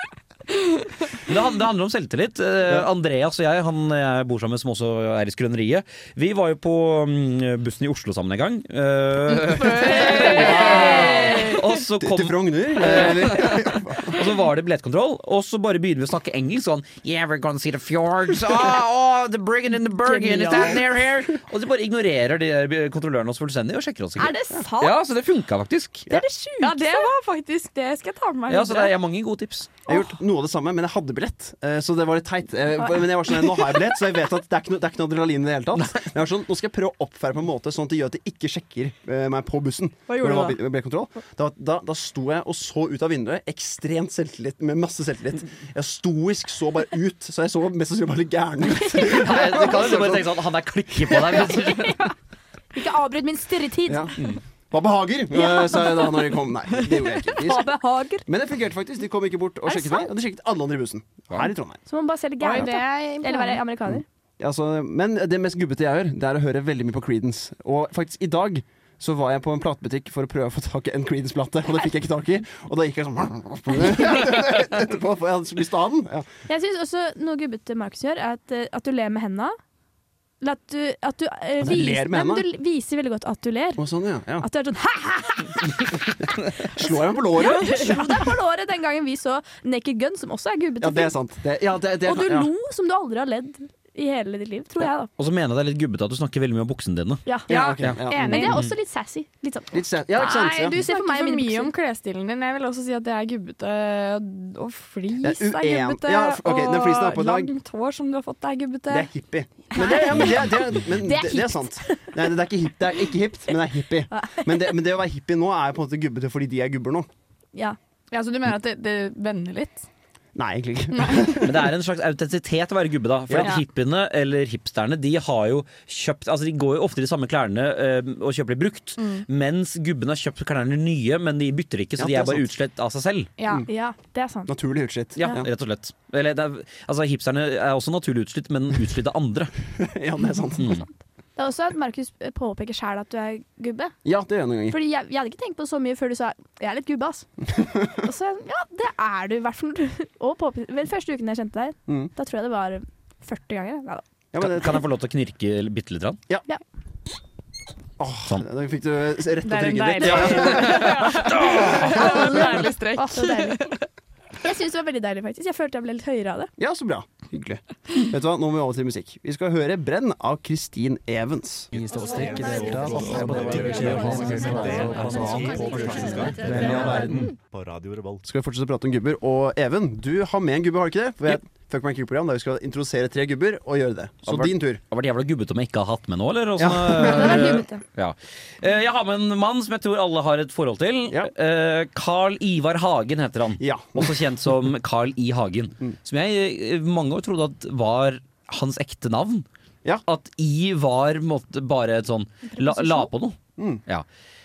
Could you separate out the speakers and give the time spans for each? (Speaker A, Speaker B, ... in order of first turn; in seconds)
Speaker A: 1.2-26.1, 28.5-29.8, 49.0-52.0, 95.2-97.2, 121.4-133.3, 135.2-139.5, 140.6-140.8, 154.4-156.2, 160.3-161.9, 184.2-199.4, 200.0-204.0
Speaker B: 9.4-11.6, 20.1-20.7, 26.6-28.9, 40.1-40.6, 62.4-63.6, 97.5-98.6, 100.2-109.1, 118.1-119.8, 120.9-121.3, 129.0-129.2, 133.4-133.7, 159.4-163.8
Speaker C: 10.2-14.2, 20.4-21.3, 29.9-50.4, 50.9-51.6, 53.9-54.2, 54.7-57.7, 58.2-61.8, 63.9-76.3, 81.6-82.5, 83.8-84.5, 86.8-88.3, 90.8-92.5, 97.5-98.6, 99.7-100.8, 105.2-107.5, 108.9-117.1, 120.3-121.7, 132.0-132.5, 134.5-135.4, 139.8-140.8, 144.0-144.8, 154.3-154.8, 158.0-162.6, 166.6-171.7, 178.2-184.8, 186.6-187.6, 193.6-194.3, 203.6-203.8
Speaker D: 24.2-25.0, 26.1-27.1, 32.8-33.7, 51.9-52.1, 52.7-54.1, 55.4-56.2, 57.3-58.2, 59.7-60.1, 61.9-64.0, 76.5-79.6, 80.4-83.8, 84.4-91.1, 92.0-95.1, 97.2-97.7, 98.2-101.7, 109.7-112.0, 114.1-114.6, 133.7-134.5, 141.3-143.9, 144.7-147.3, 147.9-154.0, 160.1-160.6, 161.8-163.6, 164.4-166.5, 187.0-187.8, 202.5-203.1
Speaker E: 171.7-178.2